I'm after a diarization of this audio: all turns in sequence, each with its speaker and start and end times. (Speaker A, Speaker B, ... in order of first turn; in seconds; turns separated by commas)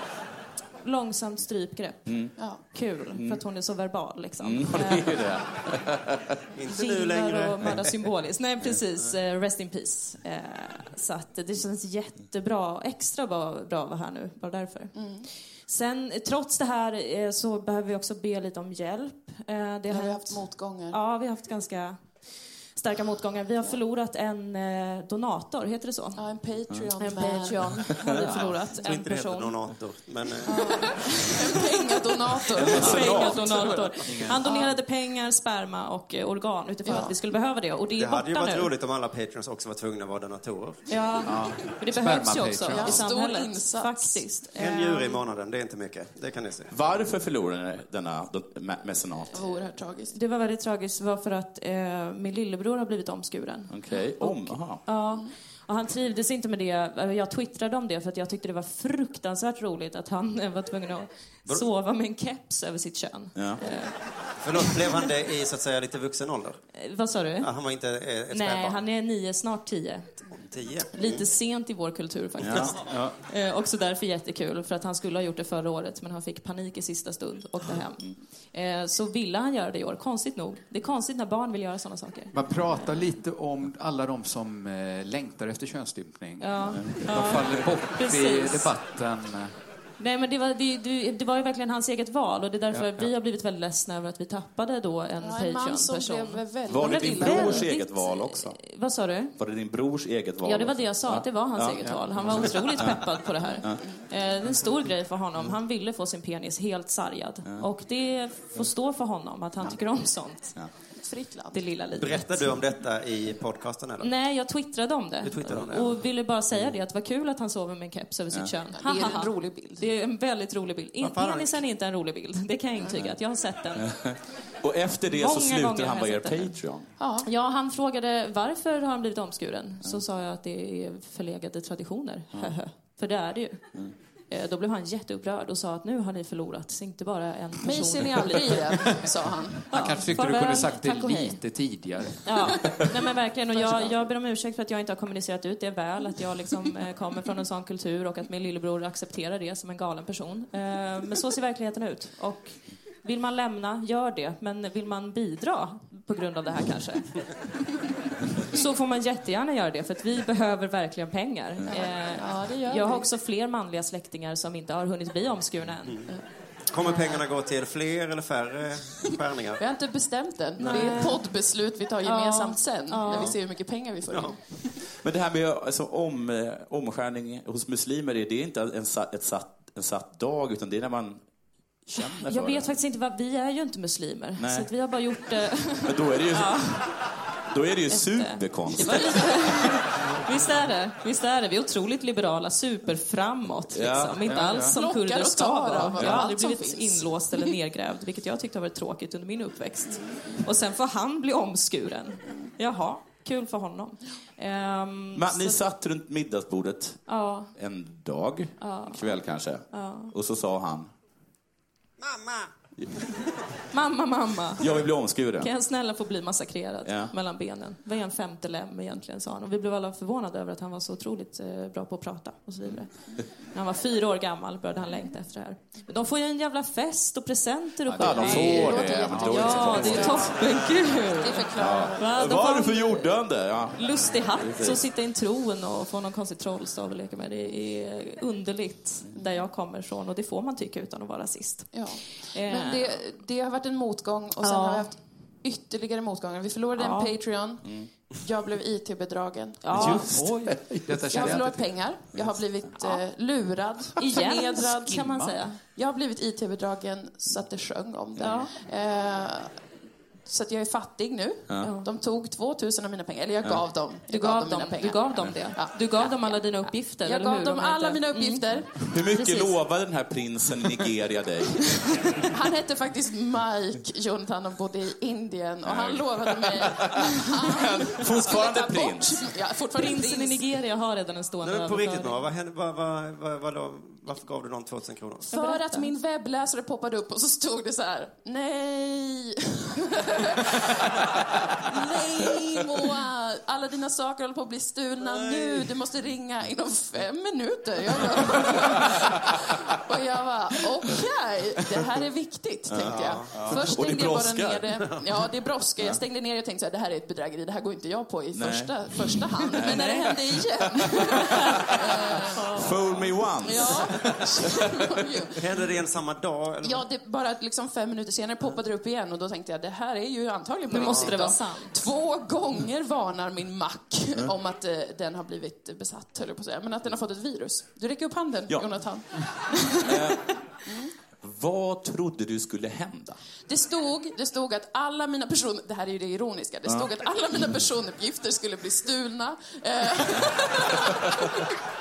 Speaker A: 0.8-5.3, Speaker B: 2.1-2.4, Speaker C: 2.4-2.7, Speaker B: 2.9-3.4, Speaker B: 4.4-6.3, Speaker D: 6.6-8.0, Speaker A: 6.7-29.6, Speaker C: 14.9-15.3, Speaker C: 19.9-21.0, Speaker C: 26.1-28.7, Speaker E: 28.2-28.5, Speaker D: 28.3-31.2, Speaker A: 30.5-31.3, Speaker C: 30.5-34.7, Speaker B: 32.6-33.4, Speaker A: 32.6-38.7, Speaker E: 34.0-34.4, Speaker C: 36.9-37.2, Speaker D: 37.9-40.8, Speaker A: 40.9-45.2, Speaker E: 41.2-43.0, Speaker C: 42.7-44.4, Speaker D: 44.5-46.7, Speaker B: 46.7-49.3, Speaker C: 49.3-50.2, Speaker A: 50.1-65.1, Speaker B: 53.7-54.8, Speaker C: 54.9-55.3, Speaker D: 64.4-66.6, Speaker A: 66.7-67.5, Speaker D: 67.4-68.8, Speaker A: 68.3-70.2, Speaker D: 70.3-71.3, Speaker A: 70.9-83.1, Speaker B: 72.4-72.8, Speaker E: 72.8-73.2, Speaker E: 82.3-89.5, Speaker A: 86.4-88.8, Speaker B: 86.7-87.1, Speaker A: 90.0-99.3, Speaker E: 92.7-93.1, Speaker C: 95.2-97.7, Speaker B: 96.7-98.6, Speaker B: 99.4-103.1, Speaker A: 100.4-110.7, Speaker C: 103.5-104.0, Speaker C: 110.9-111.6, Speaker A: 111.5-112.7, Speaker D: 112.0-114.1, Speaker A: 114.0-124.1, Speaker D: 115.2-116.1, Speaker C: 118.7-119.9, Speaker D: 121.0-121.7, Speaker B: 123.8-126.9, Speaker A: 125.0-126.6, Speaker C: 127.0-127.3, Speaker A: 127.2-133.7, Speaker A: 134.3-139.1, Speaker C: 137.6-139.7, Speaker E: 139.7-142.8, Speaker A: 139.7-141.4, Speaker A: 142.2-157.4, Speaker C: 143.5-144.0, Speaker A: 158.4-166.1, Speaker C: 161.7-163.1, Speaker D: 165.8-169.6, Speaker C: 166.8-167.2, Speaker C: 169.6-174.8, Speaker D: 170.6-171.1, Speaker A: 170.6-173.6, Speaker D: 173.1-174.4, Speaker B: 175.0-181.2, Speaker B: 181.9-182.7, Speaker A: 182.1-187.1, Speaker B: 184.4-184.7, Speaker B: 185.8-186.9, Speaker B: 187.5-189.3, Speaker A: 187.9-205.6, Speaker B: 193.7-194.2, Speaker E: 194.2-194.8, Speaker C: 194.6-197.6, Speaker B: 205.1-207.0, Speaker A: 207.1-207.5, Speaker B: 207.6-210.9, Speaker A: 208.6-210.1, Speaker D: 212.0-212.5, Speaker A: 213.7-233.1, Speaker B: 214.6-215.5, Speaker B: 216.8-217.1, Speaker E: 227.8-228.7, Speaker B: 228.0-230.3, Speaker C: 228.0-232.1, Speaker B: 231.6-234.8, Speaker A: 233.7-243.0, Speaker C: 239.1-239.5, Speaker C: 241.7-250.1, Speaker A: 244.4-244.9, Speaker A: 246.7-247.3, Speaker A: 249.6-250.3, Speaker E: 249.7-251.9, Speaker B: 249.7-251.4, Speaker C: 251.1-254.9, Speaker B: 252.1-252.7, Speaker A: 254.0-255.6, Speaker E: 254.1-255.4, Speaker C: 255.7-259.6, Speaker A: 258.2-258.5, Speaker C: 260.3-269.5, Speaker A: 261.6-261.9, Speaker A: 264.1-269.3, Speaker B: 268.9-272.1, Speaker C: 272.3-280.4, Speaker B: 275.6-279.3, Speaker A: 279.8-282.2, Speaker D: 281.4-285.3, Speaker A: 285.3-285.9, Speaker C: 285.3-291.0, Speaker C: 291.7-312.5, Speaker D: 295.0-295.6, Speaker B: 302.7-304.8, Speaker D: 302.8-303.7, Speaker B: 305.8-306.0, Speaker B: 308.3-308.9, Speaker B: 309.5-310.9, Speaker B: 312.5-314.6, Speaker A: 312.5-313.2, Speaker C: 313.4-315.4, Speaker D: 315.4-316.9, Speaker C: 316.6-330.2, Speaker A: 320.7-321.8, Speaker B: 328.5-328.9, Speaker B: 329.8-330.2, Speaker C: 330.7-330.9, Speaker B: 331.2-333.2, Speaker C: 333.5-341.2, Speaker B: 336.7-336.9